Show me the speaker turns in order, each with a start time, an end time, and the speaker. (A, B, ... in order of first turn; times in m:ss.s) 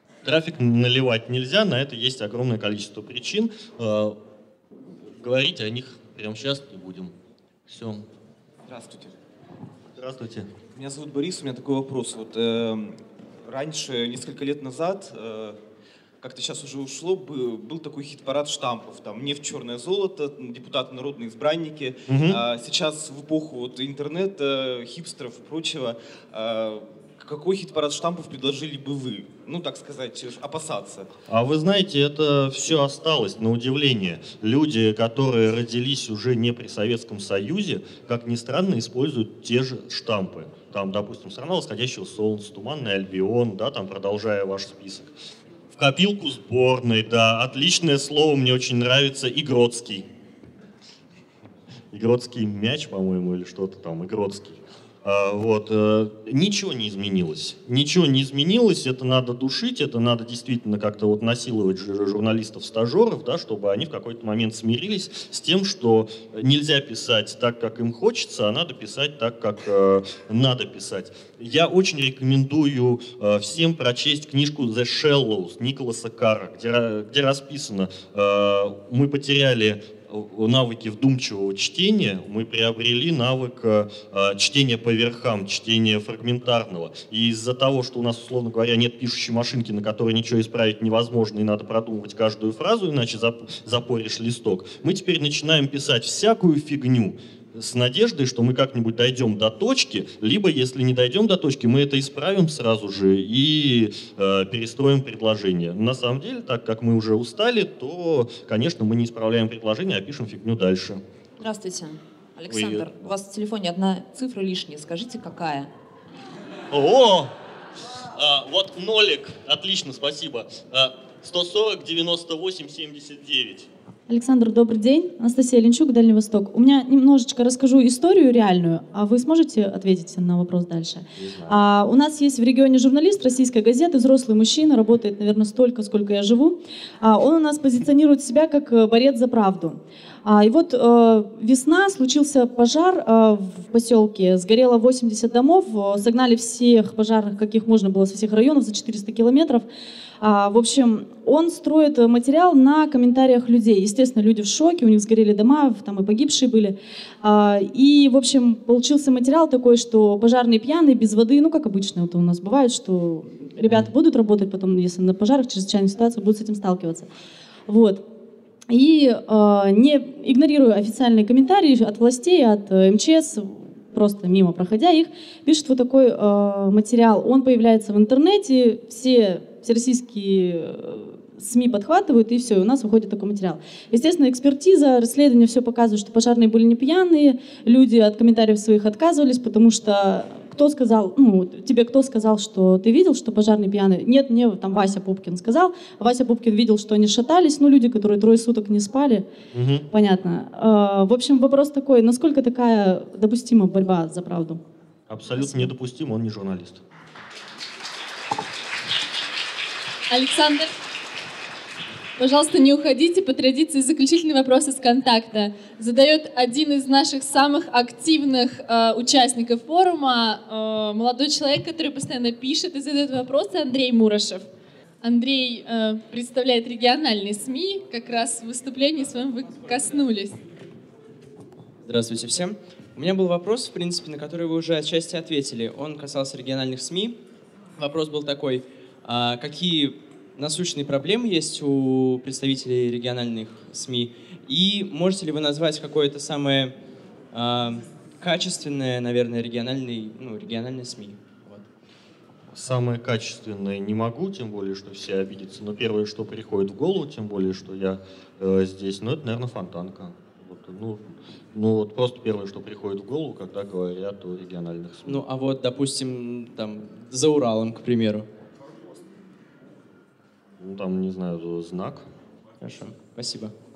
0:00.2-0:04.2 A
0:05.2-0:07.1 A
0:07.7-0:08.1 A
0:08.7-0:09.2 B
0:10.0-0:10.5 A
0:10.8-0:15.6 B
0:16.2-0:31.1 B
0:22.1-0:22.4 A
0:31.3-0:45.1 A
0:45.7-0:50.1 A
0:51.9-1:51.0 A
1:51.4-1:55.7 C
1:52.5-1:52.9 A
1:56.7-1:57.3 A
1:58.1-2:03.7 A
2:04.1-2:29.7 D
2:11.2-2:11.7 A
2:30.2-2:47.1 D
2:47.7-2:48.0 D
2:48.7-3:19.3 D
3:19.5-3:19.9 A
3:19.9-3:24.6 D
3:25.1-3:26.8 A
3:25.4-3:25.7 D
3:30.1-3:30.7 E
3:32.2-3:44.5 E
3:45.0-3:50.4 E
3:51.8-3:57.2 F
3:57.8-4:06.8 F
4:07.3-4:11.7 F
4:12.5-4:25.2 A
4:25.0-4:28.3 F
4:30.6-4:32.1 A
4:32.6-4:33.5 F